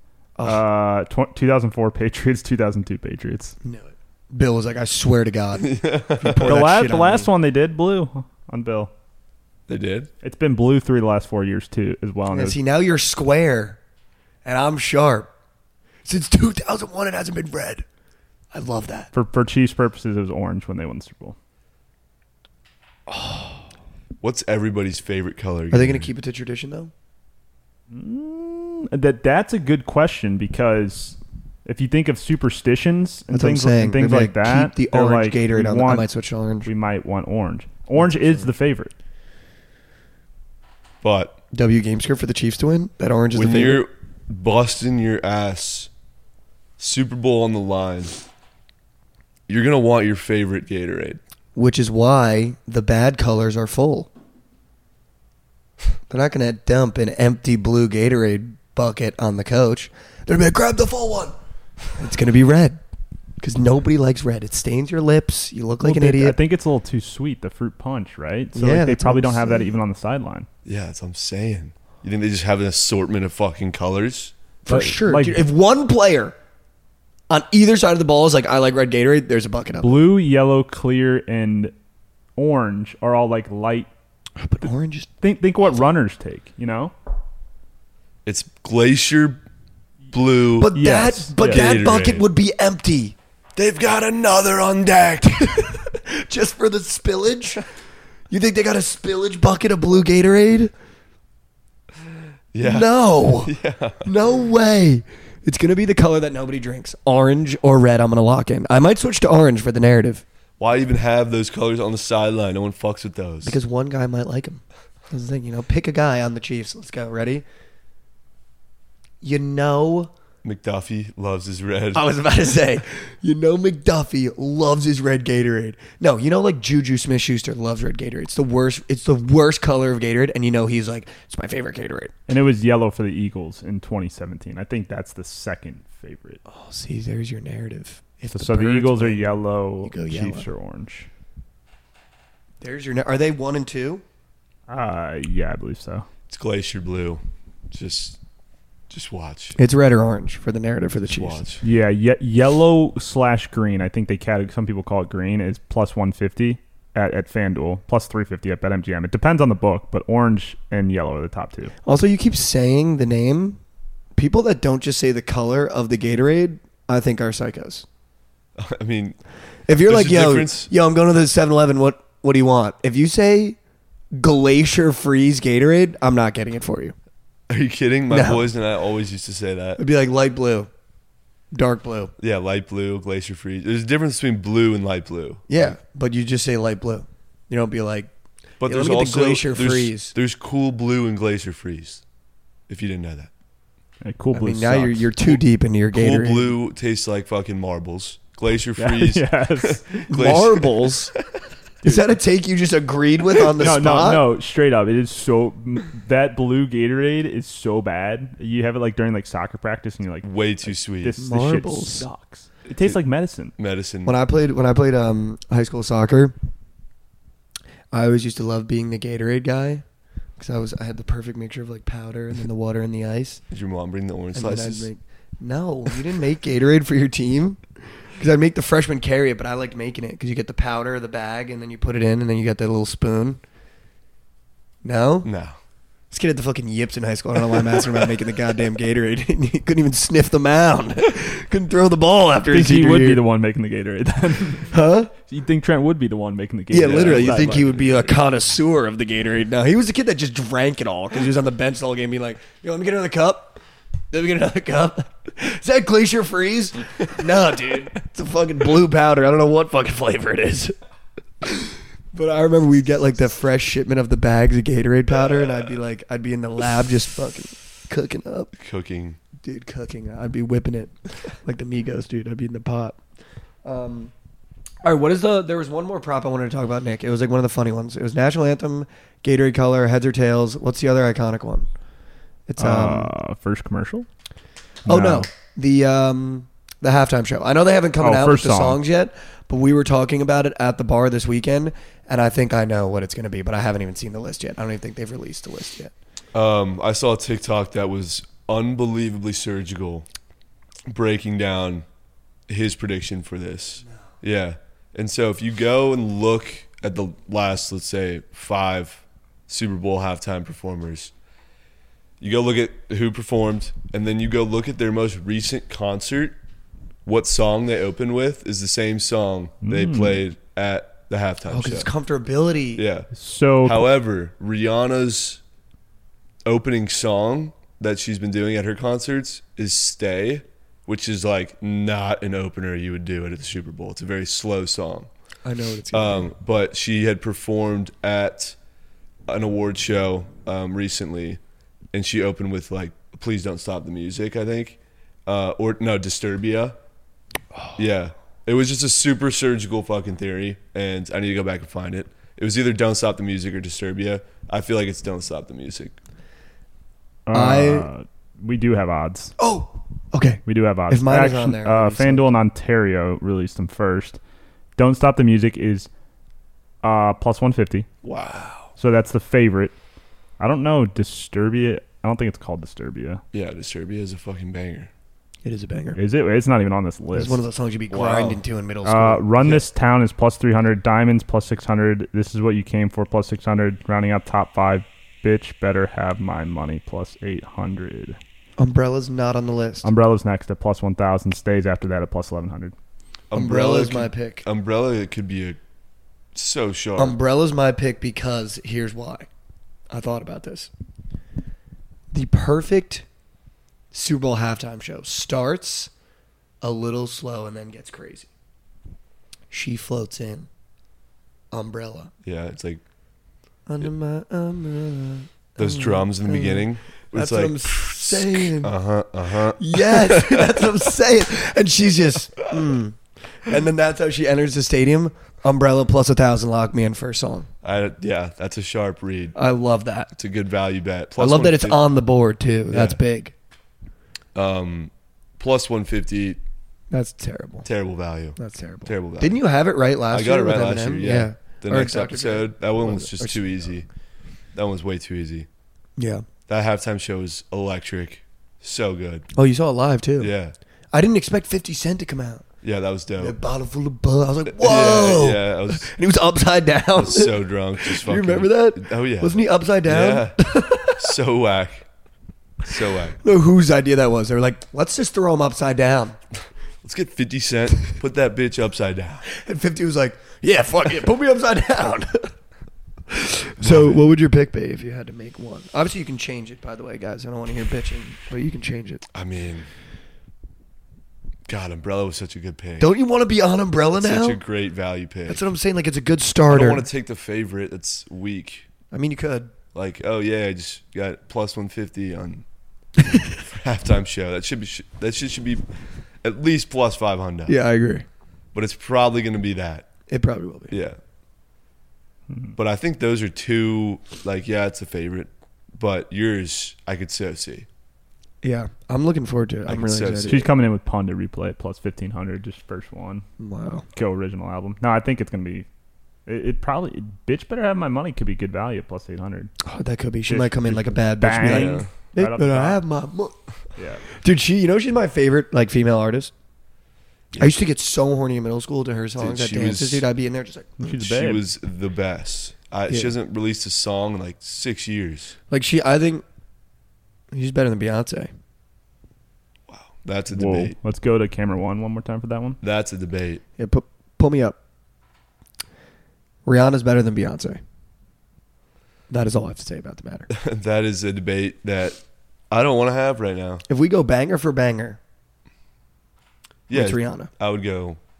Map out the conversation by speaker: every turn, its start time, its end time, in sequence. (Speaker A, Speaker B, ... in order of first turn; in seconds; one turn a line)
Speaker A: 0.4-3.5
Speaker B: 3.6-7.3
Speaker C: 5.6-6.6
Speaker A: 6.5-8.9
Speaker C: 9.7-10.1
Speaker A: 10.2-12.6
Speaker B: 12.3-13.8
Speaker B: 14.4-15.3
Speaker B: 16.1-17.9
Speaker B: 18.5-19.1
Speaker A: 19.1-21.4
Speaker B: 23.1-23.5
Speaker C: 24.2-26.1
Speaker B: 25.7-26.9
Speaker A: 27.9-36.1
Speaker B: 33.3-36.7
Speaker A: 36.6-38.9
Speaker B: 38.0-38.5
Speaker C: 41.0-41.4
Speaker B: 41.5-43.9
Speaker C: 43.3-45.9
Speaker C: 46.8-48.1
Speaker C: 49.5-51.2
Speaker B: 51.5-54.1
Speaker B: 56.1-61.4
Speaker B: 62.0-62.8
Speaker B: 63.4-66.4
Speaker A: 65.8-70.5
Speaker B: 68.5-69.8
Speaker C: 70.7-74.3
Speaker B: 74.7-76.3
Speaker A: 74.7-75.5
Speaker B: 77.3-79.9
Speaker A: 79.8-81.7
Speaker A: 82.4-83.9
Speaker B: 84.4-85.1
Speaker A: 85.2-86.9
Speaker C: 88.2-89.4
Speaker C: 90.1-90.8
Speaker B: 90.6-93.2
Speaker A: 90.8-91.9
Speaker C: 91.4-92.3
Speaker C: 93.6-95.6
Speaker B: 95.5-97.7
Speaker B: 98.3-100.7
Speaker C: 102.5-102.9
Speaker B: 102.6-110.2
Speaker C: 103.4-104.1
Speaker C: 110.6-113.6
Speaker B: 113.4-117.5
Speaker B: 119.2-120.1
Speaker C: 120.4-122.0
Speaker B: 121.9-132.1
Speaker A: 132.3-136.4
Speaker B: 136.5-140.5
Speaker A: 138.3-141.1
Speaker B: 142.6-144.0
Speaker A: 144.7-146.1
Speaker C: 146.3-148.2
Speaker C: 148.9-149.6
Speaker B: 149.6-151.4
Speaker C: 151.0-151.6
Speaker A: 151.6-161.7
Speaker B: 161.9-163.6
Speaker B: 164.2-167.9
Speaker C: 168.6-169.2
Speaker B: 169.7-173.6
Speaker C: 169.7-170.7
Speaker B: 174.1-176.9
Speaker C: 177.5-179.8
Speaker B: 178.1-178.5
Speaker B: 179.8-180.7
Speaker B: 181.5-182.1
Speaker C: 182.2-185.8
Speaker B: 185.5-188.1
Speaker C: 188.6-192.0
Speaker B: 188.7-190.2
Speaker C: 192.7-193.3
Speaker A: 194.0-195.1
Speaker B: 194.3-196.5
Speaker C: 195.9-200.9
Speaker A: 198.8-200.1
Speaker B: 200.1-201.1
Speaker B: 201.8-204.2
Speaker A: 203.6-213.5
Speaker C: 210.2-211.2
Speaker B: 211.2-212.1
Speaker C: 213.6-214.2
Speaker B: 214.1-216.3
Speaker B: 217.9-219.8
Speaker B: 220.4-223.4
Speaker C: 223.5-224.9
Speaker B: 224.3-227.6
Speaker B: 228.2-233.4
Speaker B: 234.8-235.3
Speaker C: 235.2-235.6
Speaker B: 236.1-243.2
Speaker C: 237.5-238.1
Speaker A: 242.5-248.2
Speaker B: 244.7-245.1
Speaker B: 246.7-253.6
Speaker C: 246.8-247.4
Speaker B: 254.1-260.7
Speaker B: 261.4-268.5
Speaker C: 268.6-269.2
Speaker B: 269.4-273.0
Speaker B: 273.6-274.1
Speaker B: 274.8-281.7
Speaker B: 282.5-283.1
Speaker A: 282.6-284.1
Speaker A: 284.9-285.3
Speaker B: 284.9-295.9
Speaker A: 288.0-288.8
Speaker C: 296.3-300.1
Speaker C: 300.9-301.9
Speaker C: 302.5-311.1
Speaker C: 312.2-316.4
Speaker C: 317.1-321.9
Speaker A: 319.6-320.2
Speaker B: 321.5-322.8
Speaker C: 322.8-323.1
Speaker A: 323.1-323.9
Speaker C: 323.6-325.4
Speaker C: 326.5-335.1
Speaker B: 335.4-336.3
Speaker C: 335.9-338.6
Speaker C: 339.3-341.4
Speaker C: 341.9-346.8
Speaker C: 347.8-355.9
Speaker A: 357.3-359.4
Speaker B: 357.3-357.9
Speaker B: 359.4-362.4
Speaker A: 360.5-364.2
Speaker A: 364.8-365.9
Speaker A: 366.8-367.9
Speaker C: 368.0-368.5
Speaker A: 368.8-369.8
Speaker A: 370.4-373.2
Speaker C: 373.3-374.9
Speaker B: 375.4-376.0
Speaker A: 376.0-377.5
Speaker B: 377.1-379.3
Speaker C: 377.9-378.4
Speaker A: 378.9-388.2
Speaker B: 388.6-389.9
Speaker A: 389.8-392.8
Speaker C: 393.3-395.6
Speaker B: 393.4-394.4
Speaker C: 396.4-397.2
Speaker B: 397.0-399.3
Speaker B: 399.9-400.7
Speaker B: 402.1-403.1
Speaker B: 403.9-405.9
Speaker B: 406.6-408.3
Speaker B: 409.5-410.5
Speaker B: 411.5-412.1
Speaker C: 412.2-412.8
Speaker B: 413.7-418.7
Speaker C: 415.6-420.7
Speaker B: 419.6-427.5
Speaker C: 427.6-429.4
Speaker B: 429.4-430.1
Speaker C: 430.1-431.8
Speaker B: 431.2-433.3
Speaker C: 432.7-433.0
Speaker C: 434.4-436.4
Speaker B: 436.9-437.7
Speaker C: 437.6-439.4
Speaker B: 438.4-443.7
Speaker C: 440.1-443.9
Speaker C: 444.5-445.5
Speaker B: 446.0-446.2
Speaker C: 446.5-449.3
Speaker B: 449.4-450.3
Speaker C: 450.2-450.6
Speaker B: 450.9-452.4
Speaker C: 452.6-453.4
Speaker B: 453.2-461.1
Speaker C: 454.5-455.9
Speaker C: 457.0-461.9
Speaker C: 462.6-463.2
Speaker B: 463.2-466.2
Speaker C: 466.8-469.2
Speaker B: 469.3-472.3
Speaker B: 473.1-479.0
Speaker C: 473.6-474.0
Speaker C: 479.1-479.7
Speaker C: 481.5-482.9
Speaker B: 482.8-484.4
Speaker C: 484.0-485.5
Speaker B: 485.3-486.9
Speaker C: 486.5-488.7
Speaker B: 488.9-489.5
Speaker C: 489.7-492.4
Speaker C: 493.4-495.7
Speaker C: 496.2-497.6
Speaker B: 497.5-498.1
Speaker C: 498.5-499.9
Speaker B: 500.1-500.7
Speaker C: 500.7-501.0
Speaker A: 502.3-502.6
Speaker C: 502.6-507.7
Speaker B: 508.4-510.5
Speaker C: 509.7-510.4
Speaker A: 510.3-513.3
Speaker B: 513.4-513.9
Speaker A: 514.0-515.7
Speaker A: 516.3-519.5
Speaker B: 519.6-523.4
Speaker A: 520.3-522.8
Speaker C: 521.4-521.9
Speaker A: 523.8-524.0
Speaker B: 524.1-526.3
Speaker C: 527.3-527.6
Speaker B: 527.4-530.9
Speaker C: 529.2-530.0
Speaker A: 530.8-531.4
Speaker C: 530.9-535.4
Speaker B: 532.9-533.1
Speaker B: 535.5-536.2
Speaker B: 537.3-538.3
Speaker C: 539.7-540.8
Speaker A: 540.3-542.6
Speaker C: 542.6-543.4
Speaker B: 543.6-544.6
Speaker B: 546.5-547.6
Speaker B: 549.1-550.3
Speaker C: 550.3-553.6
Speaker B: 553.7-555.0
Speaker C: 556.7-558.0
Speaker B: 556.7-557.3